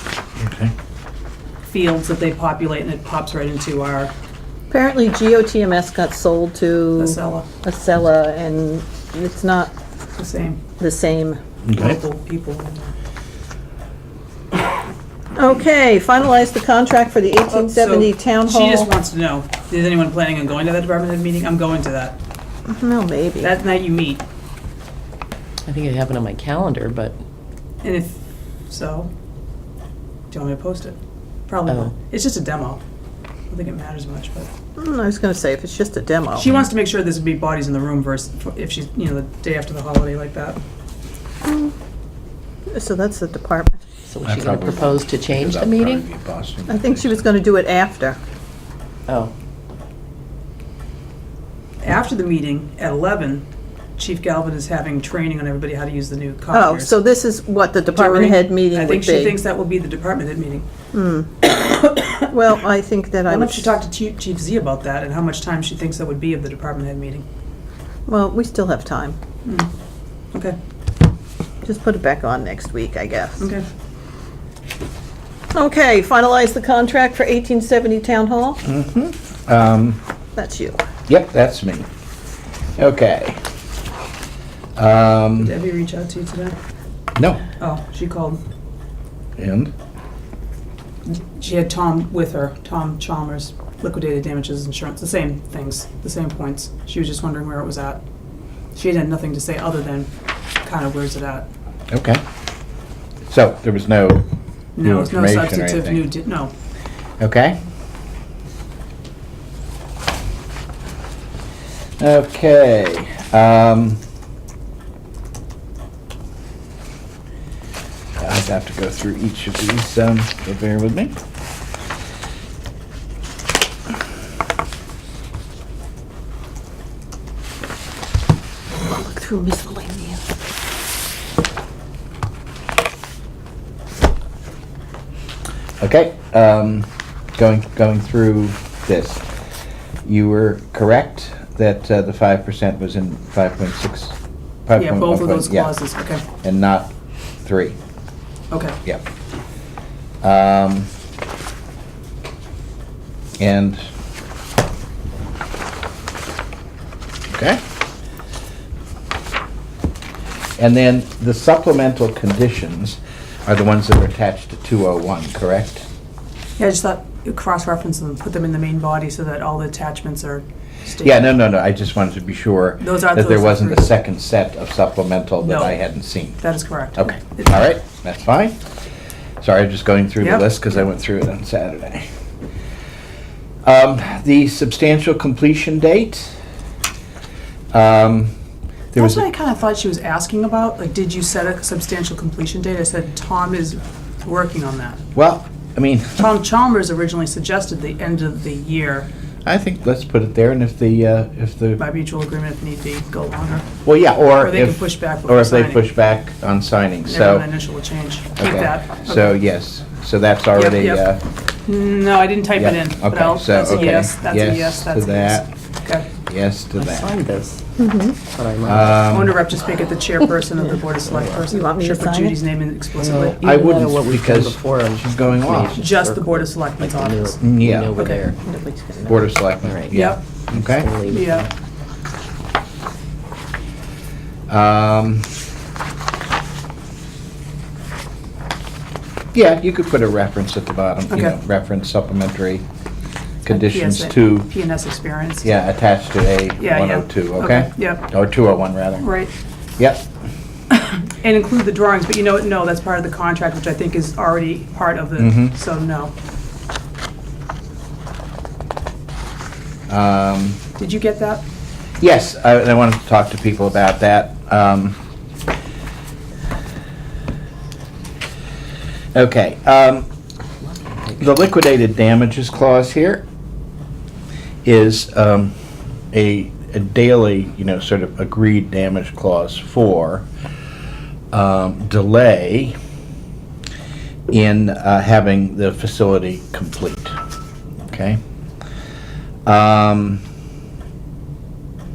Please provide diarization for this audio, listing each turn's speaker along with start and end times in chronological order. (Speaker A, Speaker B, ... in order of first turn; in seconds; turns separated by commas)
Speaker A: 0.4-0.7, Speaker B: 1.7-4.1, Speaker C: 4.7-9.7, Speaker B: 7.0-7.5, Speaker B: 10.2-10.6, Speaker C: 10.8-11.4, Speaker A: 11.6-12.0, Speaker B: 11.7-12.9, Speaker C: 15.4-18.9, Speaker B: 17.5-22.2, Speaker C: 22.7-23.5, Speaker B: 23.4-24.2, Speaker D: 25.7-27.2, Speaker B: 27.8-29.1, Speaker B: 30.3-32.8, Speaker D: 31.7-31.9, Speaker B: 33.5-34.5, Speaker C: 34.8-36.5, Speaker B: 36.4-40.6, Speaker C: 41.4-41.7, Speaker C: 42.7-43.8, Speaker D: 44.1-46.0, Speaker A: 44.2-47.2, Speaker C: 46.7-48.2, Speaker D: 49.1-49.3, Speaker B: 51.8-53.5, Speaker B: 54.0-57.0, Speaker C: 56.5-59.4, Speaker B: 57.9-60.7, Speaker C: 60.9-61.4, Speaker B: 61.5-62.3, Speaker C: 62.3-63.8, Speaker B: 63.3-67.2, Speaker C: 68.1-69.2, Speaker B: 69.5-69.7, Speaker C: 71.6-73.5, Speaker B: 73.4-73.7, Speaker C: 75.5-78.6, Speaker A: 78.7-80.0, Speaker C: 80.4-80.8, Speaker A: 81.1-81.9, Speaker A: 82.8-83.4, Speaker A: 84.8-85.5, Speaker B: 85.4-86.6, Speaker A: 87.2-87.4, Speaker B: 87.6-88.4, Speaker A: 89.4-89.7, Speaker B: 91.1-98.0, Speaker B: 98.7-100.1, Speaker B: 100.6-101.5, Speaker A: 101.9-102.2, Speaker A: 103.3-104.3, Speaker B: 104.8-106.5, Speaker A: 104.8-106.1, Speaker A: 107.2-107.6, Speaker A: 112.0-114.0, Speaker A: 118.2-121.2, Speaker C: 128.8-130.2, Speaker A: 135.8-139.2, Speaker A: 140.1-145.8, Speaker B: 144.8-146.2, Speaker A: 146.4-146.9, Speaker A: 147.4-147.8, Speaker B: 148.5-148.8, Speaker A: 150.2-150.9, Speaker A: 153.4-153.8, Speaker A: 157.3-157.6, Speaker A: 160.6-165.8, Speaker B: 166.6-171.4, Speaker A: 171.0-176.4, Speaker B: 172.8-173.9, Speaker B: 175.4-175.8, Speaker B: 176.4-177.6, Speaker A: 177.0-178.6, Speaker A: 179.4-182.1, Speaker B: 180.2-180.5, Speaker A: 183.6-186.3, Speaker A: 187.7-188.3, Speaker A: 188.9-189.2, Speaker B: 188.9-195.0, Speaker A: 195.2-196.2, Speaker B: 196.2-199.1, Speaker A: 199.4-201.8, Speaker B: 201.8-203.7, Speaker A: 203.8-207.5, Speaker B: 204.4-205.8, Speaker B: 207.1-209.4, Speaker A: 208.4-211.2, Speaker B: 210.6-211.1, Speaker B: 211.7-216.1, Speaker A: 212.6-215.5, Speaker D: 213.7-214.0, Speaker A: 216.3-217.1, Speaker D: 216.8-219.1, Speaker C: 217.8-218.2, Speaker A: 218.6-219.4, Speaker B: 219.1-223.4, Speaker D: 221.0-221.4, Speaker C: 221.5-222.4, Speaker D: 223.0-228.4, Speaker A: 223.4-225.8, Speaker B: 225.8-227.4, Speaker A: 227.4-227.9, Speaker B: 228.0-228.2, Speaker C: 228.4-229.2, Speaker A: 229.1-230.9, Speaker D: 229.6-231.5, Speaker B: 229.9-230.2, Speaker B: 231.1-231.5, Speaker A: 234.5-235.3, Speaker A: 239.3-242.7, Speaker B: 241.1-241.4, Speaker A: 243.4-244.5, Speaker B: 243.5-245.5, Speaker A: 245.4-249.1, Speaker B: 246.6-248.1, Speaker B: 249.0-249.3, Speaker A: 249.8-250.1, Speaker B: 250.7-256.1, Speaker A: 255.2-255.6, Speaker A: 259.9-260.6, Speaker B: 260.8-261.4, Speaker A: 262.0-265.0, Speaker A: 269.1-270.1, Speaker A: 271.2-273.2, Speaker A: 274.6-275.6, Speaker A: 276.1-280.3, Speaker A: 281.3-282.8, Speaker A: 284.3-287.1, Speaker A: 287.9-288.2, Speaker A: 289.5-290.2